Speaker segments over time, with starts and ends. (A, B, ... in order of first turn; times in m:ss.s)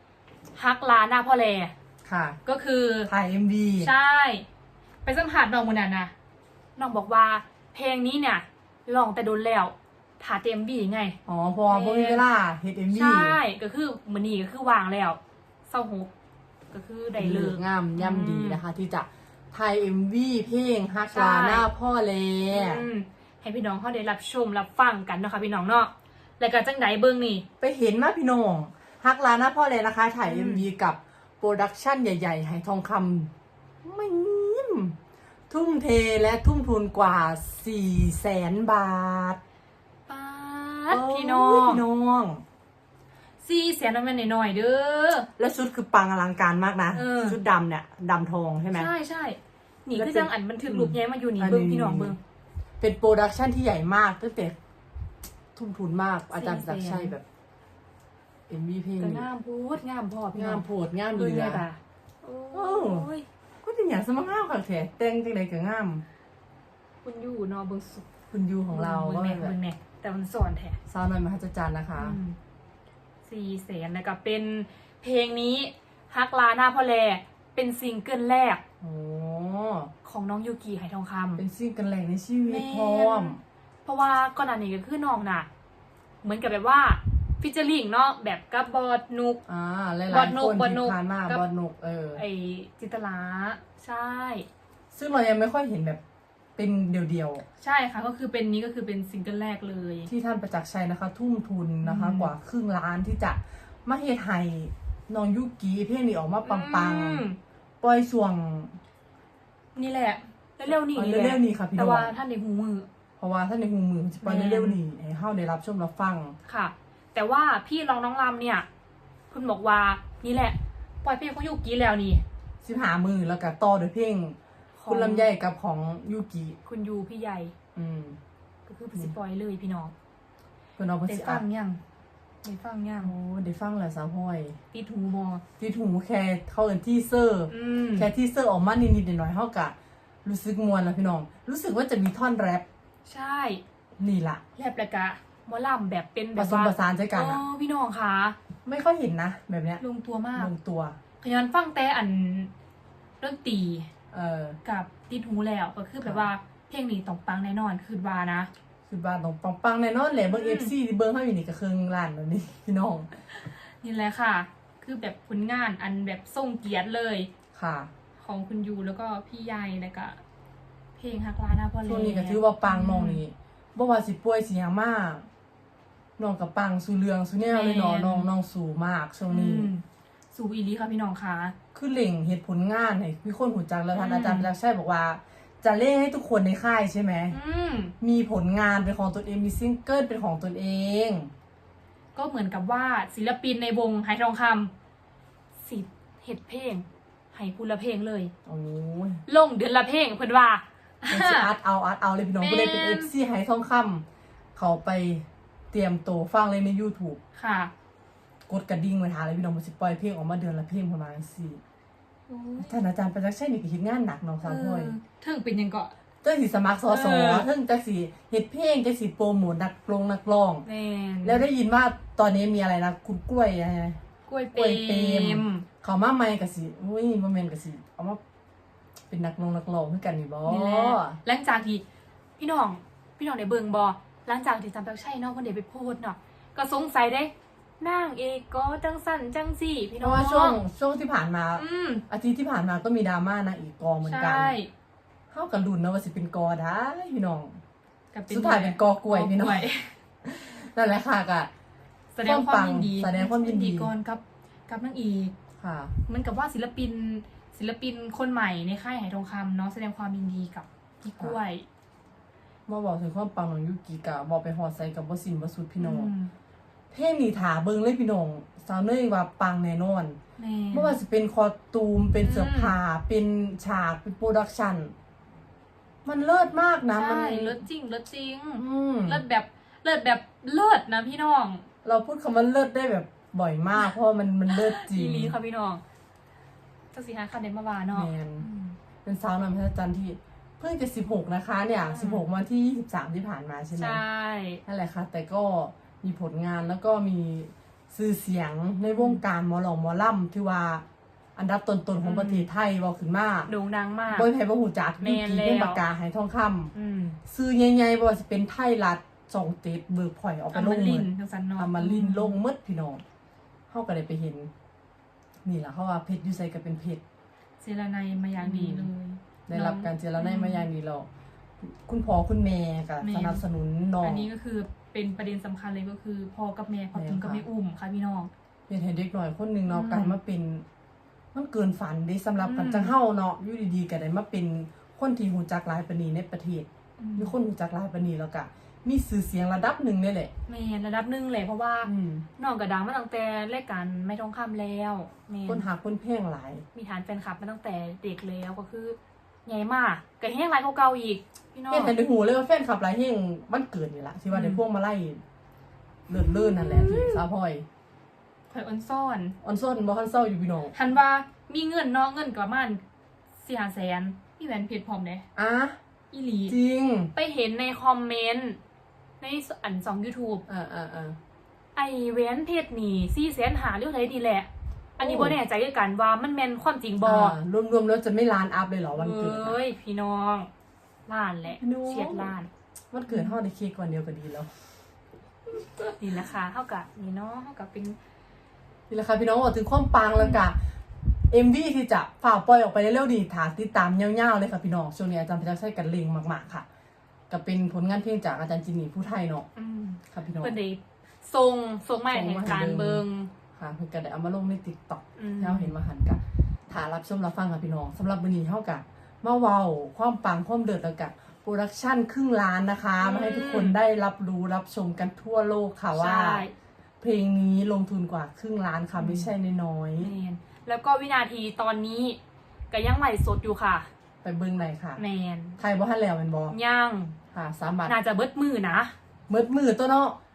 0:00.5-0:01.7 A
0:02.0-0:02.4 B
0:02.5-0:03.1 A
0:03.1-0:03.9 B
0:03.8-0:04.5 A
0:05.0-0:06.1 A
0:06.8-0:11.2 A
0:11.2-0:13.4 B
0:11.7-0:12.2 A
0:12.9-0:16.1 A
0:16.7-0:18.6 A
0:17.2-0:22.9 B
0:21.1-0:21.6 A
0:22.5-0:27.5 A
0:27.6-0:33.3 B
0:30.2-0:30.6 A
0:33.8-0:35.0 B
0:35.5-0:39.4 B
0:40.1-0:41.8 A
0:40.9-0:42.4 B
0:43.4-0:45.3 A
0:45.4-0:48.9 B
0:46.9-0:47.4 A
0:48.7-0:52.2 A
0:49.9-0:52.2 B
0:52.8-0:54.6 B
0:55.6-0:57.2 B
0:56.3-0:57.2 A
0:58.5-0:59.3 B
0:59.0-1:03.3 A
1:00.3-1:01.7 B
1:02.5-1:03.1 B
1:03.6-1:06.0 B
1:07.0-1:08.1 A
1:08.3-1:09.6 B
1:08.7-1:10.8 A
1:10.9-1:12.2 B
1:12.0-1:12.4 A
1:13.2-1:18.6 A
1:18.8-1:19.9 B
1:20.0-1:21.4 A
1:21.4-1:23.4 B
1:22.4-1:25.5 A
1:26.2-1:29.4 A
1:29.5-1:32.2 B
1:30.1-1:31.4 A
1:32.2-1:34.5 A
1:34.9-1:36.0 B
1:36.6-1:37.4 B
1:37.6-1:40.1 A
1:40.1-1:47.2 B
1:41.8-1:42.3 A
1:46.4-1:47.4 A
1:47.8-1:48.8 B
1:49.8-1:52.9 A
1:50.9-1:52.1 B
1:53.2-1:56.4 B
1:54.2-1:54.8 A
1:56.5-1:58.7 A
1:59.3-2:02.2 A
2:02.6-2:06.6 B
2:04.8-2:05.3 A
2:06.6-2:07.5 A
2:07.8-2:08.2 B
2:08.7-2:09.9 A
2:10.8-2:11.4 B
2:11.1-2:11.8 A
2:12.4-2:13.1 A
2:13.0-2:14.6 B
2:14.7-2:15.4 A
2:15.6-2:19.7 B
2:17.5-2:18.1 A
2:20.2-2:22.7 B
2:23.1-2:23.6 A
2:24.0-2:24.4 B
2:24.6-2:28.4 A
2:26.3-2:27.4 B
2:28.6-2:29.8 B
2:29.8-2:30.5 A
2:30.3-2:31.0 B
2:31.2-2:32.5 A
2:33.2-2:33.9 A
2:34.1-2:34.6 B
2:34.6-2:38.5 A
2:36.0-2:36.3 B
2:38.9-2:43.2 B
2:40.3-2:40.7 A
2:43.3-2:47.3 A
2:47.5-2:47.9 B
2:48.2-2:50.2 A
2:51.0-2:53.2 A
2:51.8-2:55.3 B
2:56.2-2:59.7 B
2:57.5-2:58.3 A
2:59.3-3:01.6 A
3:01.7-3:07.4 B
3:03.9-3:04.5 A
3:07.3-3:07.9 A
3:08.0-3:11.3 B
3:12.2-3:14.7 A
3:15.6-3:18.3 A
3:18.5-3:19.2 B
3:19.2-3:21.5 A
3:21.1-3:24.0 B
3:22.4-3:23.1 A
3:24.6-3:27.2 B
3:27.3-3:27.7 A
3:28.5-3:31.6 B
3:32.3-3:32.8 A
3:32.6-3:34.9 B
3:34.4-3:35.9 A
3:36.2-3:40.7 B
3:36.9-3:37.5 A
3:40.6-3:41.4 A
3:41.2-3:44.0 B
3:44.2-3:45.6 A
3:44.5-3:48.2 B
3:49.1-3:51.2 B
3:50.4-3:51.8 A
3:52.4-4:00.6 A
4:00.0-4:04.6 B
4:01.6-4:02.0 A
4:04.0-4:04.7 A
4:05.3-4:07.6 B
4:08.1-4:10.0 A
4:08.3-4:09.6 B
4:10.2-4:11.5 B
4:12.1-4:15.3 A
4:12.2-4:13.9 B
4:15.6-4:16.0 B
4:16.1-4:21.6 A
4:22.7-4:26.1 B
4:25.8-4:26.3 A
4:26.9-4:30.2 B
4:30.4-4:31.0 A
4:30.7-4:34.9 B
4:32.2-4:32.7 A
4:36.0-4:37.6 B
4:36.9-4:41.7 A
4:38.6-4:39.2 B
4:41.8-4:45.4 B
4:44.5-4:45.8 A
4:46.9-4:48.8 A
4:47.9-4:48.5 B
4:49.0-4:54.0 B
4:51.9-4:52.2 A
4:53.8-4:54.6 A
4:54.6-5:00.8 B
4:58.8-4:59.2 A
5:01.4-5:03.5 B
5:02.0-5:02.4 A
5:03.5-5:04.3 A
5:04.1-5:06.7 B
5:05.0-5:05.8 A
5:06.7-5:07.2 A
5:07.2-5:13.0 B
5:10.5-5:12.4 A
5:13.7-5:14.5 B
5:15.4-5:17.0 B
5:17.6-5:20.7 A
5:18.4-5:18.9 B
5:19.5-5:21.1 B
5:21.6-5:24.3 B
5:23.0-5:23.4 A
5:24.0-5:28.3 A
5:26.9-5:27.4 B
5:28.7-5:30.6 B
5:29.7-5:30.2 A
5:31.3-5:40.3 B
5:32.4-5:32.9 A
5:37.0-5:37.3 A
5:40.5-5:45.6 A
5:41.8-5:42.2 B
5:45.5-5:46.6 B
5:46.7-5:51.9 A
5:51.7-5:55.2 B
5:54.3-5:54.6 A
5:56.1-5:57.6 B
5:56.1-5:57.2 A
5:58.5-5:59.4 A
5:59.4-6:00.7 B
6:00.7-6:02.8 A
6:03.4-6:05.2 A
6:05.4-6:05.8 B
6:06.1-6:06.6 A
6:06.5-6:07.1 B
6:07.1-6:08.6 A
6:09.2-6:10.4 A
6:10.5-6:11.2 B
6:11.7-6:17.4 A
6:15.0-6:15.4 B
6:17.0-6:19.6 B
6:18.9-6:20.5 A
6:21.1-6:22.5 A
6:21.5-6:22.3 B
6:22.9-6:24.5 B
6:23.1-6:23.4 A
6:25.9-6:28.0 A
6:28.9-6:30.6 B
6:31.3-6:36.6 B
6:37.3-6:39.5 B
6:39.6-6:43.3 A
6:40.1-6:40.5 B
6:42.1-6:56.4 B
6:45.2-6:45.7 A
6:53.0-6:53.8 A
6:55.9-6:56.5 A
6:57.0-7:00.1 B
6:59.0-6:59.3 A
7:00.0-7:02.2 A
7:02.7-7:03.9 A
7:04.2-7:05.0 B
7:05.0-7:05.6 A
7:05.6-7:06.5 B
7:06.5-7:07.1 A
7:07.3-7:07.9 B
7:07.8-7:08.9 A
7:09.3-7:10.2 B